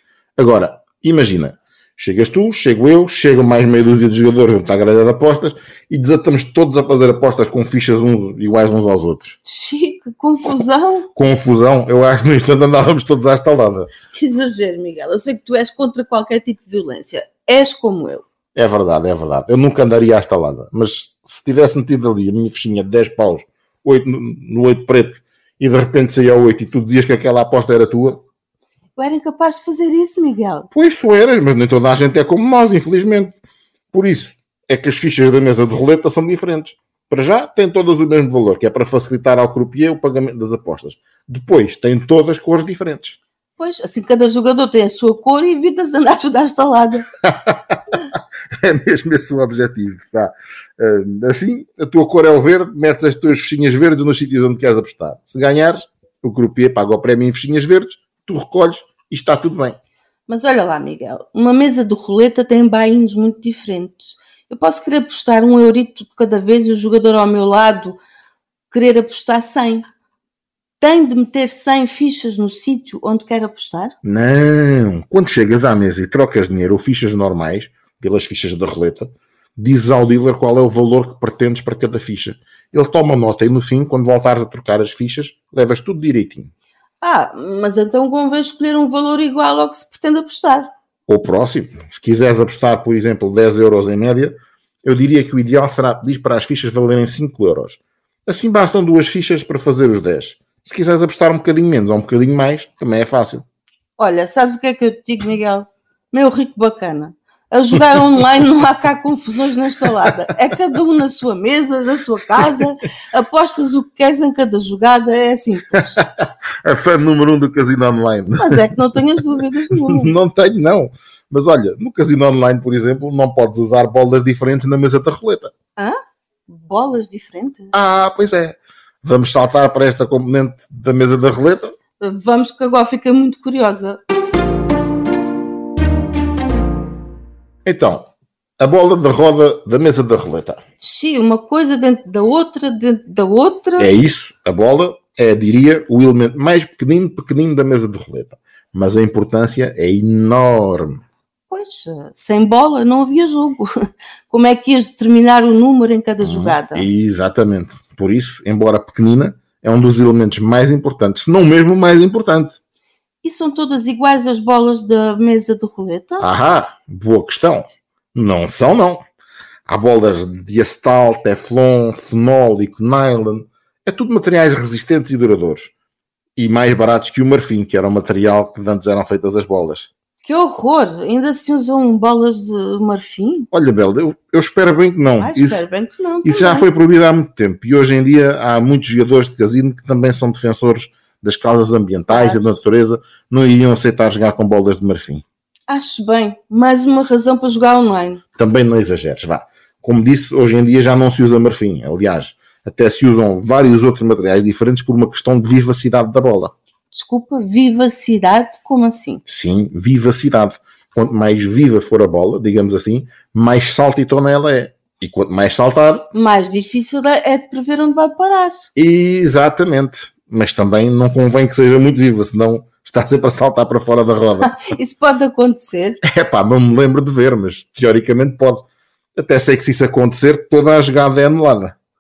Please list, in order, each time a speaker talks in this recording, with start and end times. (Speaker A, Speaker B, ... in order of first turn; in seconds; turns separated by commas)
Speaker A: 0.4-9.4, Speaker B: 9.4-11.1, Speaker A: 11.2-13.9, Speaker B: 14.2-18.2, Speaker A: 18.6-28.2, Speaker B: 29.0-30.7, Speaker A: 30.7-33.4, Speaker A: 33.9-43.2, Speaker B: 43.6-47.1, Speaker A: 47.2-59.8, Speaker B: 60.3-68.0, Speaker B: 68.7-69.8, Speaker B: 70.8-74.0, Speaker A: 74.0-86.5, Speaker B: 87.0-90.7, Speaker A: 91.1-103.5, Speaker B: 104.0-116.0, Speaker A: 115.8-119.0, Speaker B: 118.4-120.2, Speaker A: 119.8-125.5, Speaker B: 126.5-127.7, Speaker A: 127.7-131.7, Speaker B: 132.0-134.0, Speaker A: 137.7-140.6, Speaker B: 140.8-143.9, Speaker A: 143.8-151.0, Speaker B: 151.5-153.7, Speaker B: 154.3-156.9, Speaker A: 156.2-162.6, Speaker B: 163.2-166.3, Speaker A: 166.2-169.0, Speaker A: 169.7-175.7, Speaker A: 176.4-179.9, Speaker B: 180.2-183.5, Speaker A: 183.5-185.7, Speaker B: 185.2-186.7, Speaker A: 186.2-195.2, Speaker B: 192.1-192.6, Speaker B: 195.7-198.2, Speaker A: 198.4-206.5, Speaker B: 206.9-209.2, Speaker A: 209.3-216.1, Speaker B: 216.1-218.6, Speaker A: 218.8-224.6, Speaker B: 224.4-226.0, Speaker A: 226.0-231.8